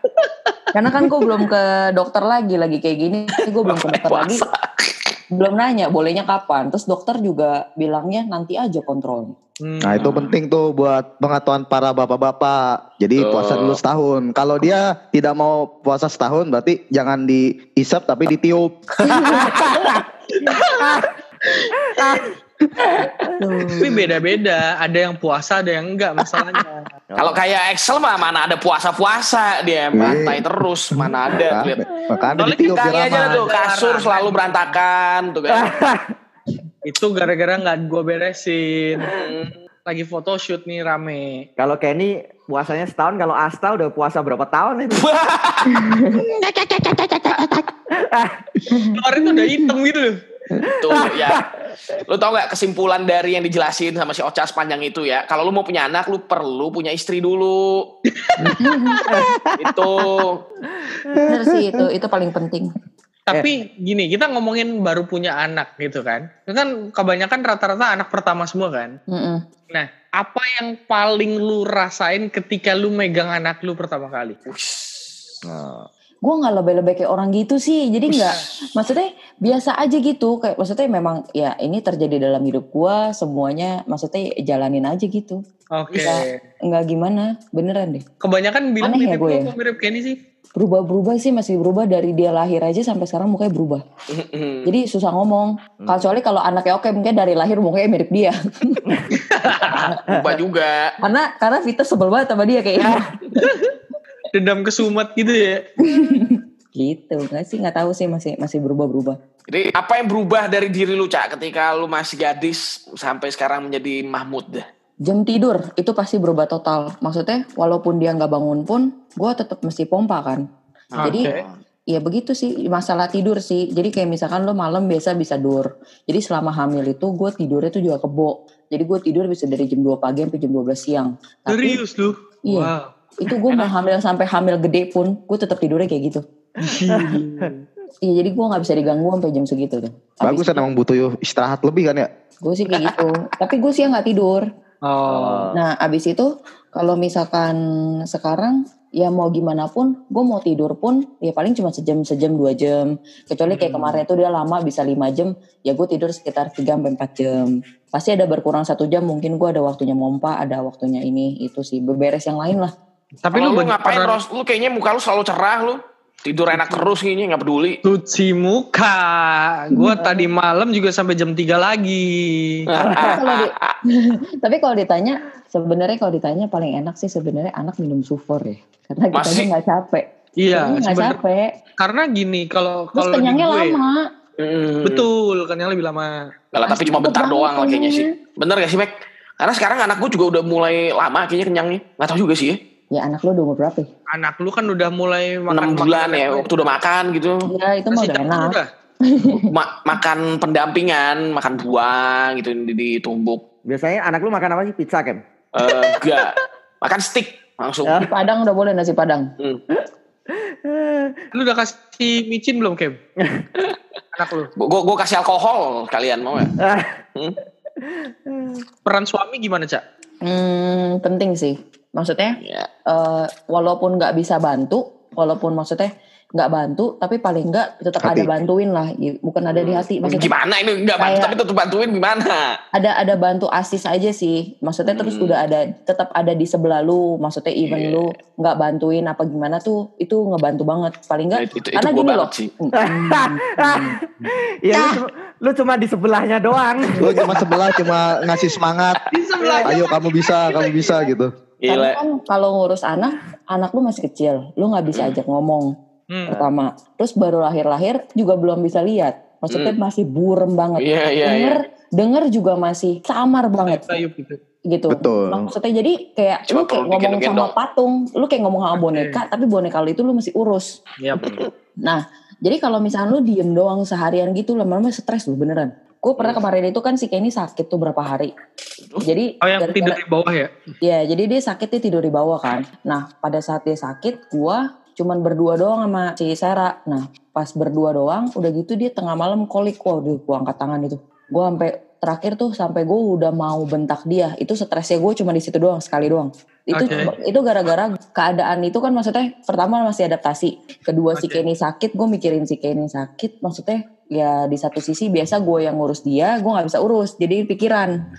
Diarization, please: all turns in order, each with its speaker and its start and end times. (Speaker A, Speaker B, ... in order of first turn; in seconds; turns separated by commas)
Speaker A: 0.2-0.5, Speaker B: 0.7-4.5, Speaker C: 3.7-5.1, Speaker B: 5.3-9.3, Speaker A: 9.6-10.2, Speaker D: 9.8-18.8, Speaker C: 10.0-10.3, Speaker C: 13.2-13.8, Speaker B: 19.1-19.5, Speaker E: 19.4-19.6, Speaker E: 20.8-21.0, Speaker E: 21.9-22.3, Speaker E: 22.9-23.2, Speaker B: 23.4-24.0, Speaker A: 23.8-26.9, Speaker E: 27.1-27.4, Speaker C: 27.2-31.9, Speaker D: 30.0-30.4, Speaker D: 31.3-33.5, Speaker A: 32.4-34.8, Speaker C: 32.6-35.7, Speaker E: 35.5-36.1, Speaker A: 36.9-39.1, Speaker C: 39.1-39.6, Speaker A: 39.9-41.5, Speaker E: 41.6-45.1, Speaker C: 44.9-45.8, Speaker B: 45.7-46.2, Speaker D: 46.1-47.6, Speaker E: 48.0-48.7, Speaker B: 48.7-49.0, Speaker A: 48.9-50.2, Speaker E: 50.6-51.5, Speaker C: 50.7-51.4, Speaker C: 52.0-57.9, Speaker A: 58.2-59.0, Speaker B: 58.4-59.1, Speaker E: 59.1-59.3, Speaker C: 59.6-60.4, Speaker E: 61.0-61.2, Speaker D: 61.1-61.8, Speaker B: 61.3-62.7, Speaker A: 63.3-69.0, Speaker B: 69.1-69.4, Speaker A: 69.7-74.4, Speaker C: 74.5-75.2, Speaker E: 75.5-75.9, Speaker B: 76.2-85.4, Speaker A: 85.8-86.4, Speaker B: 86.0-88.0, Speaker A: 88.2-90.2, Speaker B: 88.8-89.5, Speaker B: 90.6-93.8, Speaker C: 94.1-94.7, Speaker B: 94.7-98.8, Speaker E: 95.8-96.1, Speaker A: 99.2-99.9, Speaker B: 99.5-100.4, Speaker C: 100.1-100.9, Speaker B: 101.0-103.6, Speaker E: 102.8-103.1, Speaker A: 104.3-105.7, Speaker B: 105.8-109.2, Speaker C: 109.5-114.7, Speaker B: 115.1-120.4, Speaker C: 120.9-121.6, Speaker A: 121.0-121.4, Speaker B: 121.0-121.3, Speaker B: 121.9-131.8, Speaker A: 131.5-132.9, Speaker B: 132.5-136.2, Speaker C: 133.4-133.7, Speaker A: 136.6-137.7, Speaker E: 136.8-137.5, Speaker B: 138.0-140.7, Speaker D: 140.2-142.1, Speaker B: 142.4-144.4, Speaker C: 142.7-143.0, Speaker A: 144.9-145.5, Speaker E: 145.1-145.6, Speaker B: 145.5-147.6, Speaker B: 148.1-162.7, Speaker A: 153.5-154.0, Speaker A: 163.2-164.2, Speaker C: 163.3-167.8, Speaker A: 167.8-172.7, Speaker B: 169.8-170.0, Speaker E: 170.0-170.3, Speaker C: 172.7-173.8, Speaker B: 172.8-181.5, Speaker C: 179.1-179.5, Speaker A: 180.4-181.2, Speaker A: 181.8-183.8, Speaker B: 182.9-184.0, Speaker C: 184.4-185.1, Speaker A: 184.8-186.1, Speaker C: 186.5-192.6, Speaker B: 186.7-188.1, Speaker B: 192.9-193.9, Speaker A: 194.1-196.5, Speaker C: 195.5-197.5, Speaker B: 197.5-199.4, Speaker A: 197.9-198.7, Speaker C: 199.4-203.4, Speaker E: 203.7-205.2, Speaker C: 205.6-208.1, Speaker B: 208.0-209.3, Speaker E: 210.7-211.2, Speaker A: 211.3-213.0, Speaker A: 214.1-214.5, Speaker C: 214.6-216.6, Speaker E: 216.6-216.9, Speaker E: 218.1-218.7, Speaker A: 218.9-219.8, Speaker B: 220.2-230.3, Speaker C: 222.4-222.7, Speaker D: 228.0-228.3, Speaker C: 229.5-232.6, Speaker B: 231.0-231.4, Speaker B: 232.7-244.0, Speaker C: 234.9-235.4, Speaker C: 237.6-238.0, Speaker C: 241.3-242.5, Speaker E: 242.8-244.0, Speaker E: 244.6-247.3, Speaker D: 247.0-249.0, Speaker A: 249.1-251.0, Speaker E: 249.4-249.7, Speaker D: 249.6-251.3, Speaker C: 251.6-252.0, Speaker B: 251.7-255.7, Speaker A: 256.1-256.4, Speaker B: 256.3-264.0, Speaker C: 259.5-259.8, Speaker C: 260.8-261.6, Speaker A: 263.6-264.4, Speaker B: 264.7-270.7, Speaker D: 264.9-265.5, Speaker C: 266.5-267.5, Speaker A: 268.8-269.2, Speaker A: 271.0-271.3, Speaker C: 271.2-271.5, Speaker B: 271.9-278.3, Speaker B: 279.0-280.0, Speaker A: 279.4-280.7, Speaker B: 280.8-307.9, Speaker A: 296.8-297.1, Speaker A: 301.1-301.4